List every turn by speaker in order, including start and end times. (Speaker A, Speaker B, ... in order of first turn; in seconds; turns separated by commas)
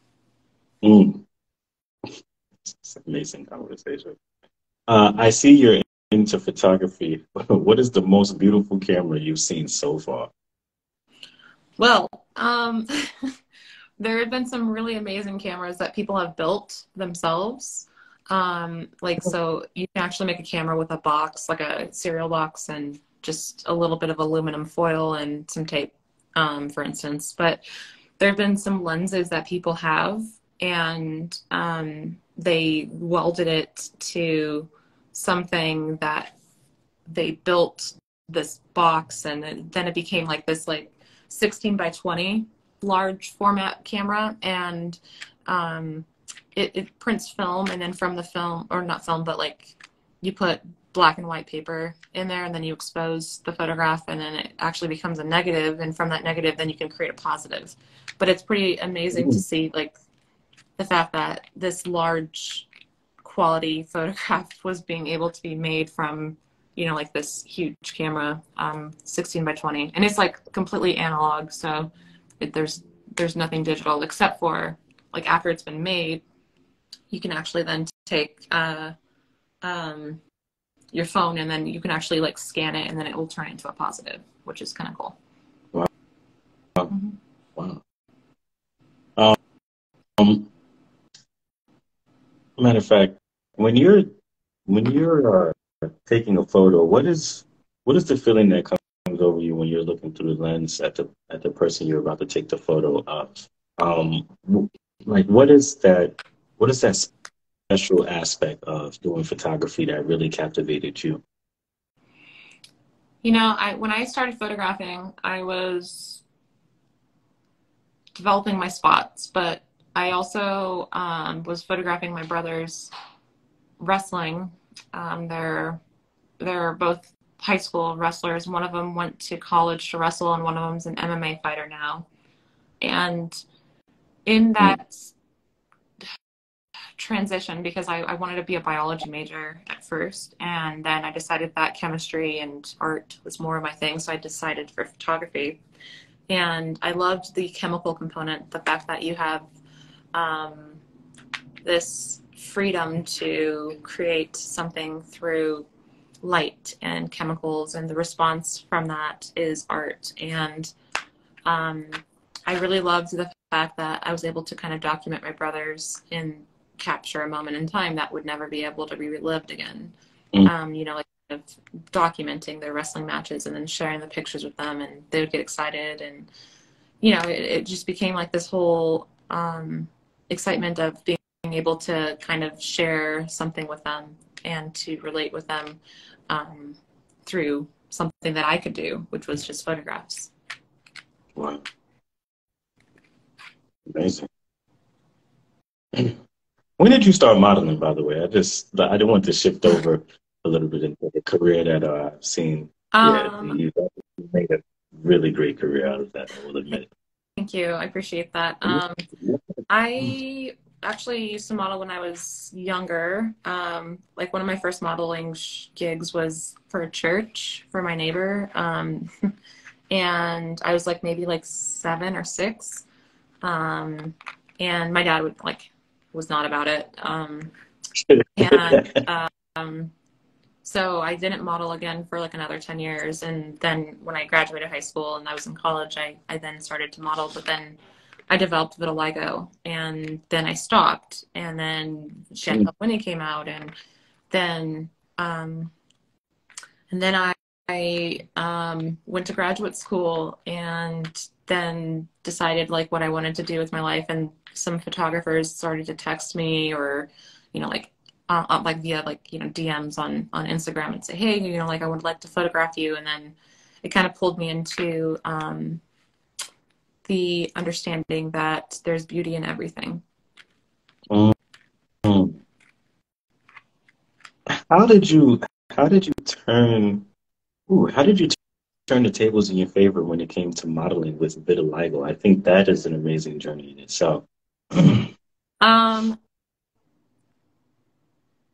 Speaker A: 0.8-1.2, Speaker A: 2.6-4.2, Speaker A: 4.9-10.3, Speaker B: 11.8-13.3, Speaker B: 14.0-27.6, Speaker B: 28.2-36.3, Speaker B: 37.1-59.9, Speaker B: 60.8-62.7, Speaker B: 63.2-76.2, Speaker B: 77.1-78.9, Speaker B: 79.6-80.2, Speaker B: 80.9-85.2, Speaker B: 86.9-87.1, Speaker A: 87.5-87.8, Speaker A: 90.2-90.5, Speaker A: 92.6-94.1, Speaker A: 94.7-107.1, Speaker A: 107.7-111.2, Speaker B: 113.2-116.2, Speaker B: 118.2-122.9, Speaker B: 123.8-125.8, Speaker B: 126.4-132.1, Speaker B: 132.8-133.4, Speaker B: 134.2-135.1, Speaker B: 137.0-145.6, Speaker B: 146.3-149.5, Speaker B: 150.1-150.8, Speaker B: 151.6-155.7, Speaker B: 156.2-160.7, Speaker B: 161.4-176.3, Speaker B: 177.0-185.8, Speaker B: 186.3-190.3, Speaker A: 191.3-191.7, Speaker A: 193.8-194.3, Speaker A: 195.9-196.2, Speaker A: 196.8-206.9, Speaker B: 202.9-203.6, Speaker B: 207.4-209.1, Speaker A: 208.7-209.4, Speaker B: 209.7-219.3, Speaker B: 219.9-222.8, Speaker B: 223.4-227.5, Speaker A: 228.0-229.0, Speaker B: 228.4-229.9, Speaker B: 230.6-237.8, Speaker B: 238.3-243.7, Speaker B: 244.3-245.7, Speaker B: 246.9-265.8, Speaker B: 267.1-270.0, Speaker A: 271.1-271.3, Speaker A: 272.0-272.4, Speaker A: 274.5-277.1, Speaker A: 277.7-278.4, Speaker A: 278.9-285.1, Speaker B: 285.6-286.2